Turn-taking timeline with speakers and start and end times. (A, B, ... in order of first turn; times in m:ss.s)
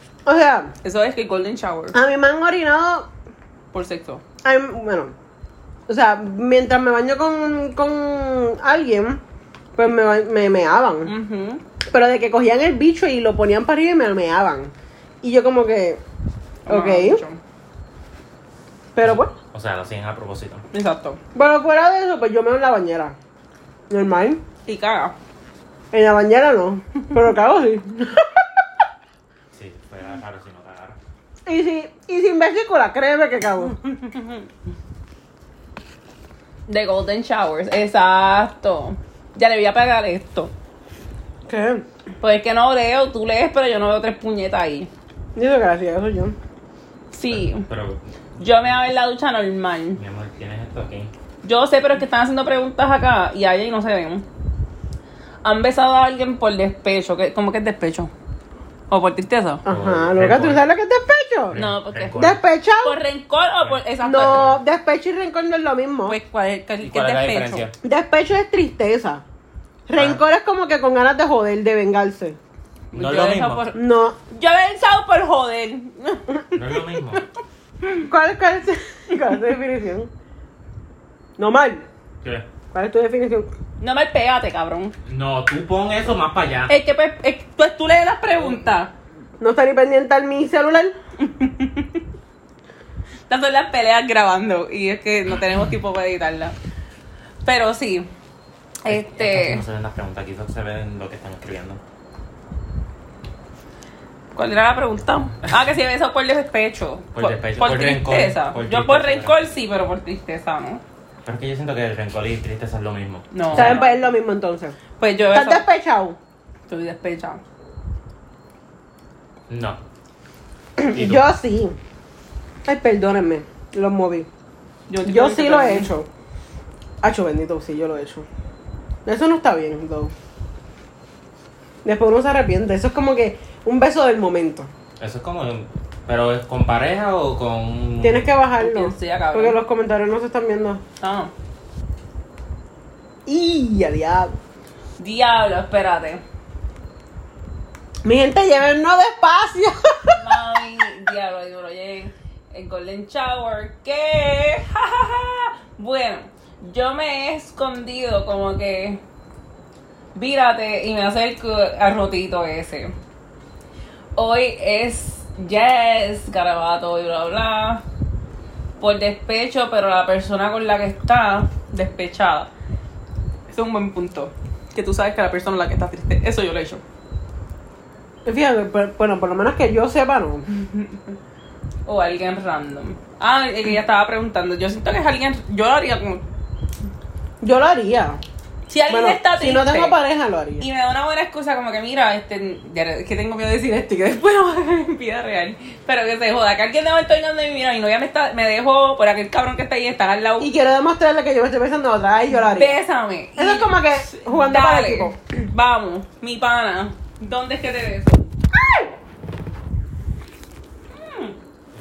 0:00.3-0:00.7 A
0:00.8-0:02.0 B
0:01.9-0:03.1 A
0:03.7-0:04.2 B
0:04.4-0:05.2 A
0:05.9-0:09.2 A
0:09.8-0:11.1 A
0:11.0-0:11.6 B
0:11.9-0:16.0 A
0:16.7-0:17.4 B
0:16.7-0:17.2 A
0:19.0-0:19.3 A
0:19.0-0:20.6 C
0:20.7-0:21.2 B
0:21.4-0:23.2 A
0:23.9-0:24.4 A
0:24.7-0:25.2 B
0:25.9-0:28.6 A
0:29.5-0:31.0 C
0:31.5-0:33.8 A
0:36.7-0:40.5 B
0:41.5-0:41.8 A
0:42.2-0:44.9 B
0:45.4-0:46.4 A
0:47.1-0:47.7 B
0:47.3-0:48.0 C
0:48.4-0:50.0 B
0:50.0-0:51.1 C
0:51.4-0:54.3 B
0:55.4-0:58.1 B
0:58.9-0:59.6 B
0:59.6-1:01.6 A
0:59.7-1:00.6 C
1:01.5-1:02.4 C
1:01.5-1:02.2 B
1:02.2-1:03.0 A
1:02.8-1:04.5 B
1:03.6-1:04.6 C
1:04.0-1:06.2 A
1:06.1-1:07.7 B
1:06.8-1:07.8 C
1:07.8-1:09.2 A
1:09.9-1:12.4 A
1:09.9-1:10.2 C
1:12.9-1:16.5 B
1:13.0-1:13.7 C
1:13.8-1:14.2 A
1:16.5-1:17.2 C
1:18.0-1:20.1 A
1:21.4-1:21.9 A
1:22.7-1:23.5 A
1:23.8-1:25.0 B
1:25.1-1:26.7 C
1:26.7-1:28.9 B
1:29.4-1:31.0 A
1:31.2-1:32.0 B
1:33.3-1:36.6 B
1:37.4-1:38.1 B
1:38.8-1:39.6 B
1:38.9-1:41.8 C
1:44.4-1:50.8 B
1:47.2-1:49.4 C
1:51.2-1:53.8 C
1:53.3-1:54.0 B
1:53.5-1:54.8 A
1:55.0-1:55.6 B
1:55.3-1:56.2 A
1:56.7-1:57.4 B
1:59.5-1:59.8 C
2:00.8-2:01.8 A
2:00.9-2:01.2 C
2:02.7-2:04.3 A
2:04.9-2:05.9 B
2:05.0-2:06.1 A
2:07.0-2:08.3 A
2:09.1-2:10.1 A
2:11.8-2:14.7 A
2:15.0-2:18.3 C
2:18.0-2:20.8 A
2:18.6-2:19.6 B
2:21.0-2:21.3 B
2:23.3-2:24.4 A
2:25.0-2:26.2 B
2:28.0-2:30.2 A
2:30.2-2:39.0 B
2:40.2-2:42.9 B
2:44.2-2:47.8 B
2:48.8-2:52.5 B
2:53.5-2:56.8 B
2:58.2-3:00.5 A
3:00.6-3:01.0 B
3:01.9-3:06.2 B
3:07.4-3:08.2 A
3:08.7-3:10.0 B
3:08.9-3:10.7 A
3:10.6-3:20.5 B
3:20.4-3:22.8 A
3:22.5-3:28.3 B
3:23.4-3:25.2 A
3:31.0-3:31.4 B